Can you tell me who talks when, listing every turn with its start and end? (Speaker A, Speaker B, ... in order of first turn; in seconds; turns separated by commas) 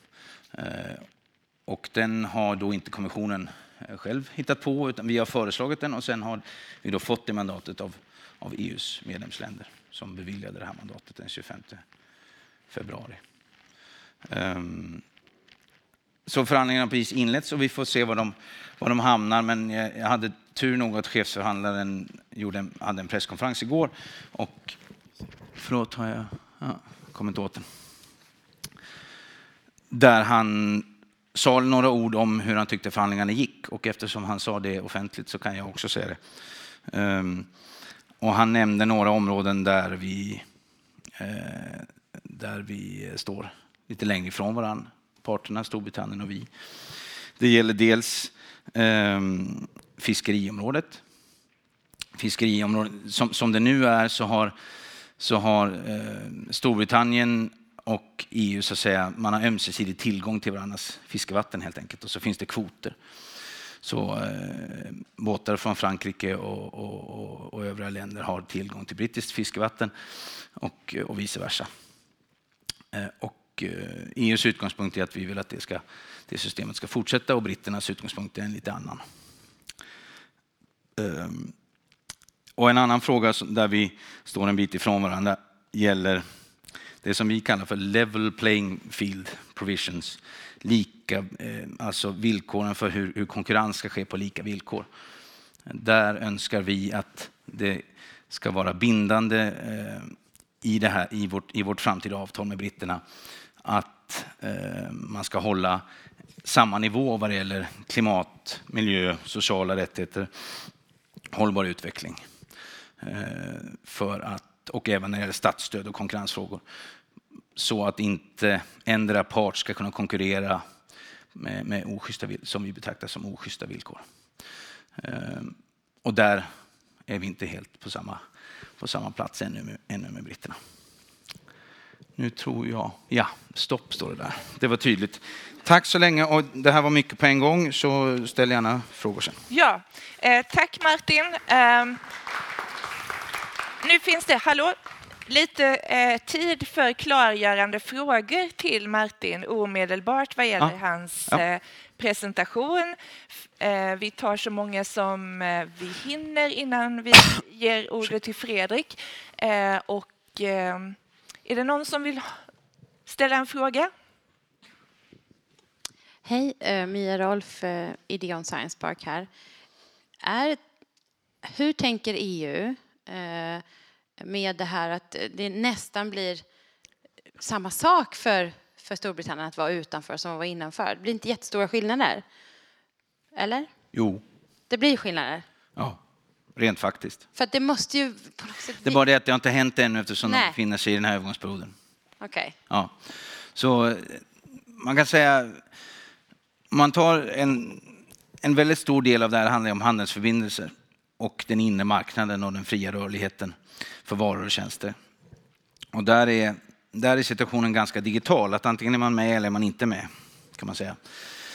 Speaker A: 0.5-1.1, Speaker A: 1.7-11.8, Speaker A: 12.7-13.2, Speaker A: 14.3-15.0, Speaker A: 16.2-24.8, Speaker A: 25.6-27.6, Speaker A: 29.9-36.2, Speaker A: 36.9-37.5, Speaker A: 38.2-40.4, Speaker A: 41.2-46.5, Speaker A: 47.4-51.0, Speaker A: 52.1-54.5, Speaker A: 55.2-63.0, Speaker A: 63.8-69.9, Speaker A: 70.6-71.7, Speaker A: 72.9-79.0, Speaker A: 81.0-81.5, Speaker A: 82.6-86.2, Speaker A: 87.0-94.9, Speaker A: 95.7-103.0, Speaker A: 103.6-105.8, Speaker A: 106.4-110.3, Speaker A: 111.3-112.2, Speaker A: 113.0-116.6, Speaker A: 117.5-120.6, Speaker A: 121.3-124.0, Speaker A: 125.0-126.5, Speaker A: 127.0-128.2, Speaker A: 128.8-130.6, Speaker A: 132.2-139.4, Speaker B: 139.5-142.0, Speaker B: 143.8-152.9, Speaker B: 153.6-162.3, Speaker B: 163.1-163.9, Speaker C: 166.2-169.3, Speaker C: 170.2-170.6, Speaker C: 171.4-173.6, Speaker C: 174.2-176.4, Speaker C: 177.4-182.2, Speaker C: 183.3-183.7, Speaker A: 183.9-184.2, Speaker C: 184.7-185.4, Speaker A: 186.6-187.2, Speaker C: 187.3-189.0, Speaker A: 188.8-191.7, Speaker C: 190.2-190.5, Speaker C: 192.2-192.5, Speaker A: 193.5-194.2, Speaker A: 194.8-195.6, Speaker A: 196.7-197.8, Speaker A: 198.4-204.9, Speaker A: 205.9-211.0